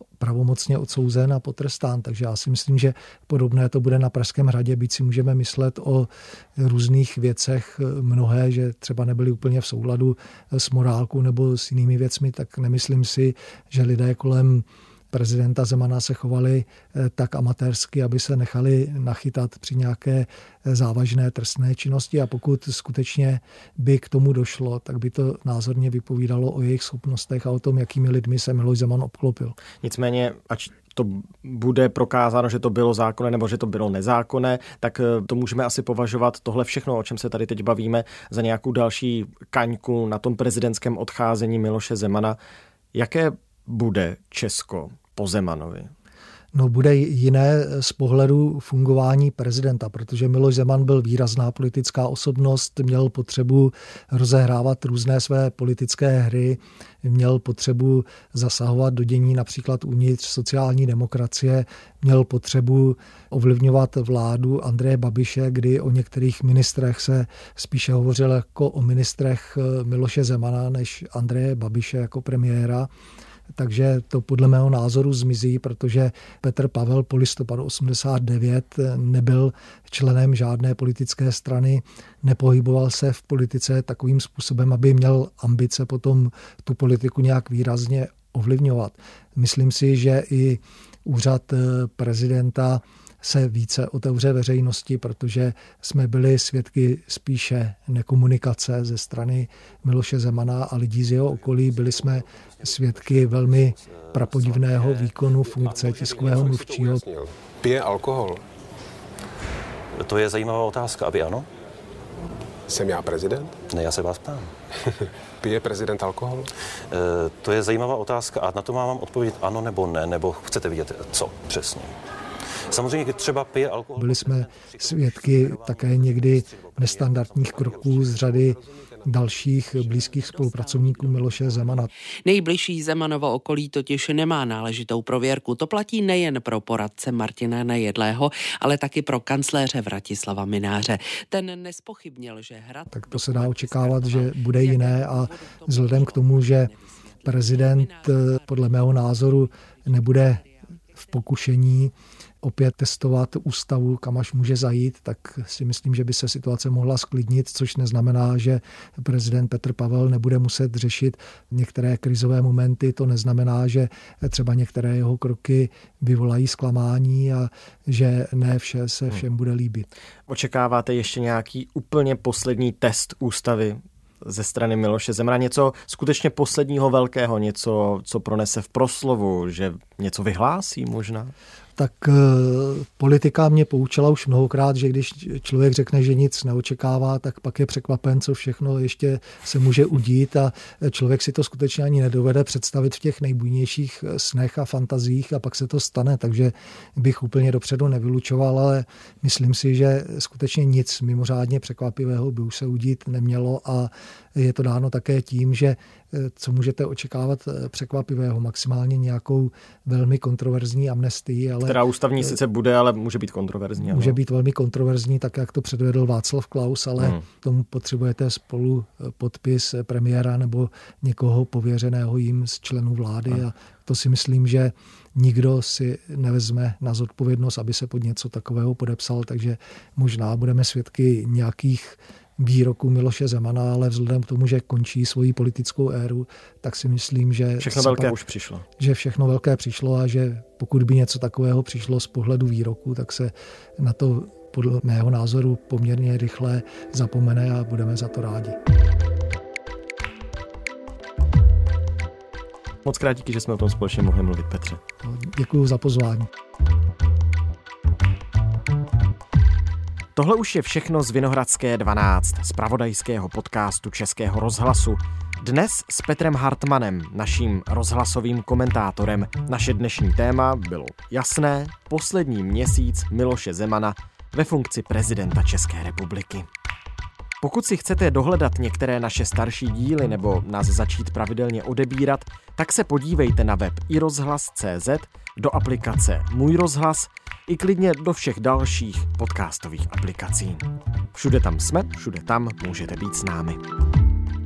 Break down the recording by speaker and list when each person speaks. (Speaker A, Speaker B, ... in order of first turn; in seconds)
Speaker A: 0.2-29.6, 46.5-72.9, 73.5-107.0, 124.0-131.9, 142.9-146.7, 147.2-150.4, 151.0-169.9, 181.8-212.3, 213.8-238.2, 238.8-248.6, 255.0-256.3
Speaker B: 29.8-42.4, 42.9-45.9, 170.3-181.3, 211.6-214.2, 237.6-238.7, 252.8-254.8, 260.1-276.5, 277.4-293.6
Speaker C: 101.2-105.1, 105.6-106.6, 109.9-111.5, 113.7-114.5, 116.9-121.9, 122.7-128.3, 130.2-131.6
Speaker D: 105.6-108.4, 112.7-113.6, 115.4-116.5, 128.0-130.4
Speaker E: 132.2-146.6